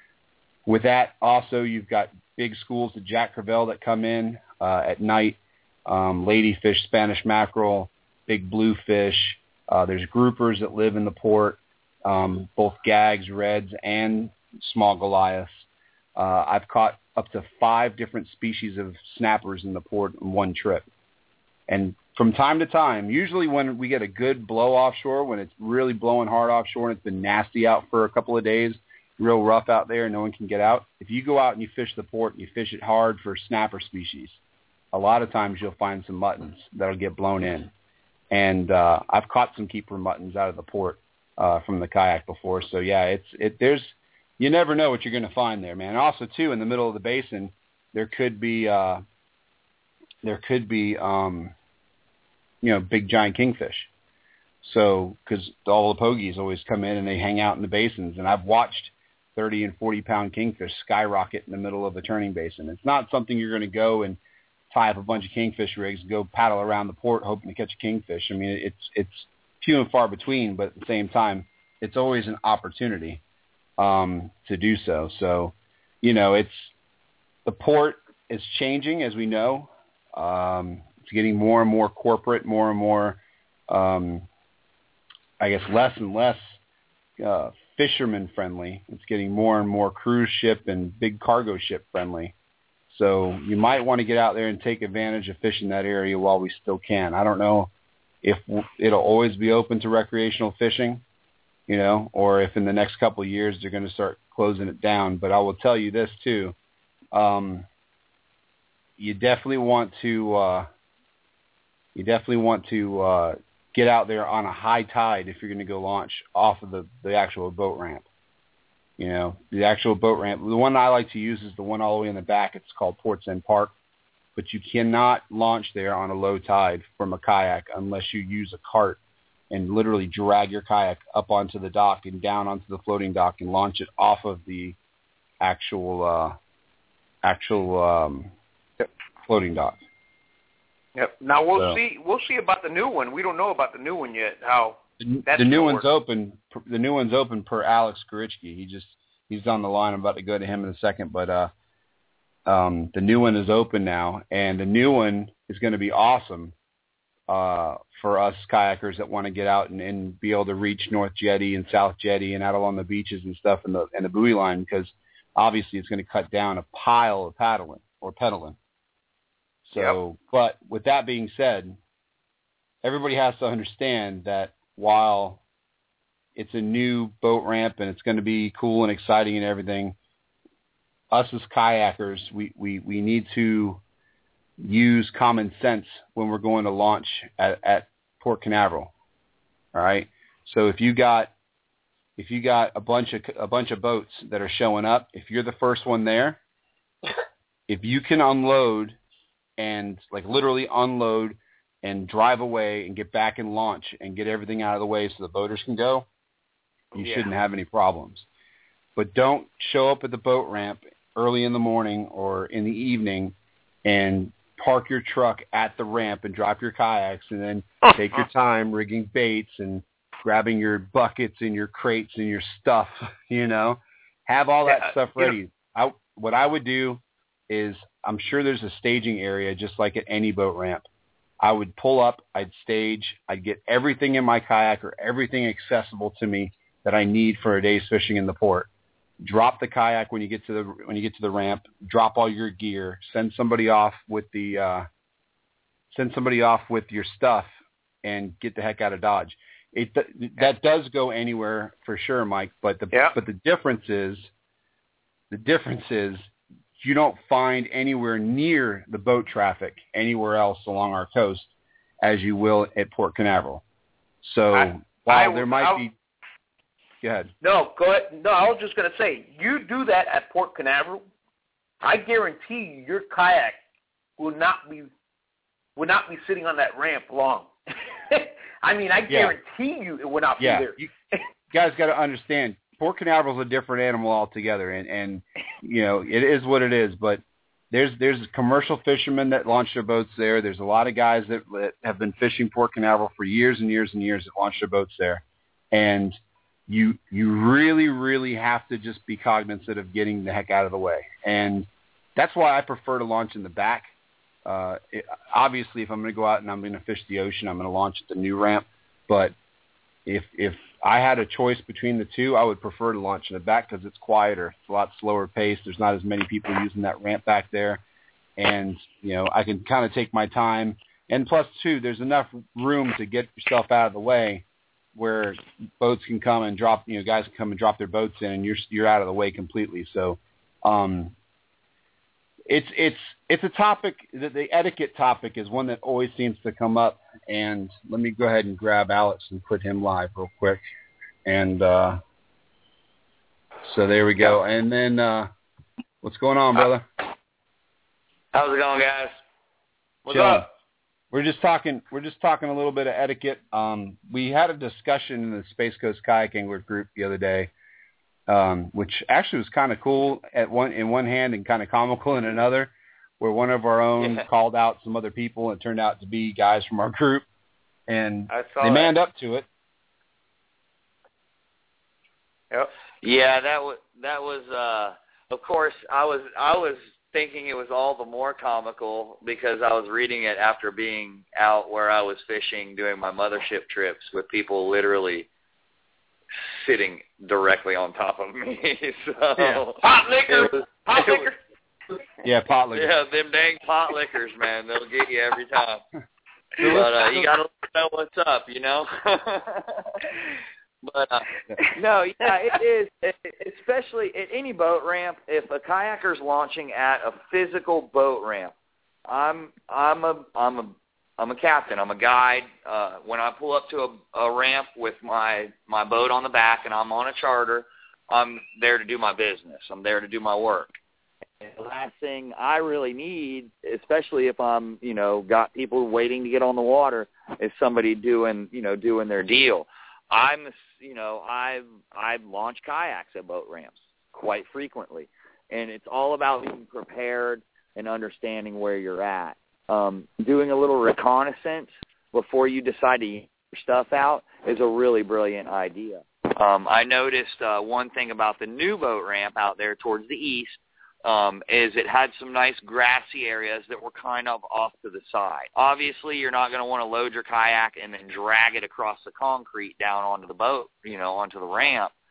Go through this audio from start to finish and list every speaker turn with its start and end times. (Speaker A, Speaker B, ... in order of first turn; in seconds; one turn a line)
Speaker A: 0.7-20.9
Speaker A: 21.7-34.4
Speaker A: 34.9-37.7
Speaker A: 38.3-49.0
Speaker A: 50.2-51.5
Speaker A: 52.6-53.9
Speaker A: 54.6-64.2
Speaker A: 64.7-73.2
Speaker A: 73.8-76.7
Speaker A: 77.5-84.3
Speaker A: 85.4-86.6
Speaker A: 87.2-92.3
Speaker A: 92.9-97.7
Speaker A: 98.2-101.0
Speaker A: 101.7-106.5
Speaker A: 107.1-107.7
Speaker A: 109.0-110.7
Speaker A: 112.0-118.1
Speaker A: 119.0-123.7
Speaker A: 124.4-129.0
Speaker A: 129.5-134.8
Speaker A: 135.4-136.4
Speaker A: 137.2-138.3
Speaker A: 139.3-139.8
Speaker B: 140.9-145.8
Speaker A: 145.0-151.5
Speaker A: 152.5-156.6
Speaker A: 157.3-168.6
Speaker A: 169.7-171.8
Speaker A: 172.8-175.4
Speaker A: 176.4-180.0
Speaker A: 181.1-183.8
Speaker A: 184.6-188.9
Speaker A: 189.7-191.3
Speaker A: 192.2-196.4
Speaker A: 197.7-199.0
Speaker A: 199.6-206.1
Speaker A: 206.9-208.3
Speaker A: 209.0-230.9
Speaker A: 231.4-238.7
Speaker A: 239.2-244.9
Speaker A: 245.9-247.5
Speaker A: 248.0-254.3
Speaker B: 252.9-253.2
Speaker A: 255.3-261.5
Speaker A: 262.0-263.6
Speaker A: 264.2-265.9
Speaker B: 264.5-265.8
Speaker A: 267.0-267.3
Speaker B: 267.4-271.0
Speaker B: 271.8-273.6
Speaker B: 274.2-274.9
Speaker B: 275.8-277.5
Speaker B: 278.1-280.8
Speaker A: 279.1-279.3
Speaker A: 280.4-280.9
Speaker A: 281.5-296.2
Speaker A: 296.7-303.9
Speaker A: 304.4-309.3
Speaker A: 310.1-317.8
Speaker A: 318.4-331.1
Speaker A: 332.5-340.6
Speaker A: 341.2-342.0
Speaker A: 343.6-345.3
Speaker A: 346.0-346.9
Speaker C: 348.3-349.2
Speaker B: 350.1-350.5
Speaker A: 350.1-350.5
Speaker A: 351.1-357.5
Speaker A: 358.3-367.2
Speaker A: 367.9-369.5
Speaker B: 368.3-368.9
Speaker C: 373.0-385.3
Speaker C: 386.4-391.3
Speaker B: 389.8-391.4
Speaker A: 392.2-392.9
Speaker C: 392.7-395.8
Speaker A: 396.6-397.3
Speaker C: 396.6-400.2
Speaker C: 400.8-408.5
Speaker C: 409.1-420.8
Speaker C: 421.4-461.9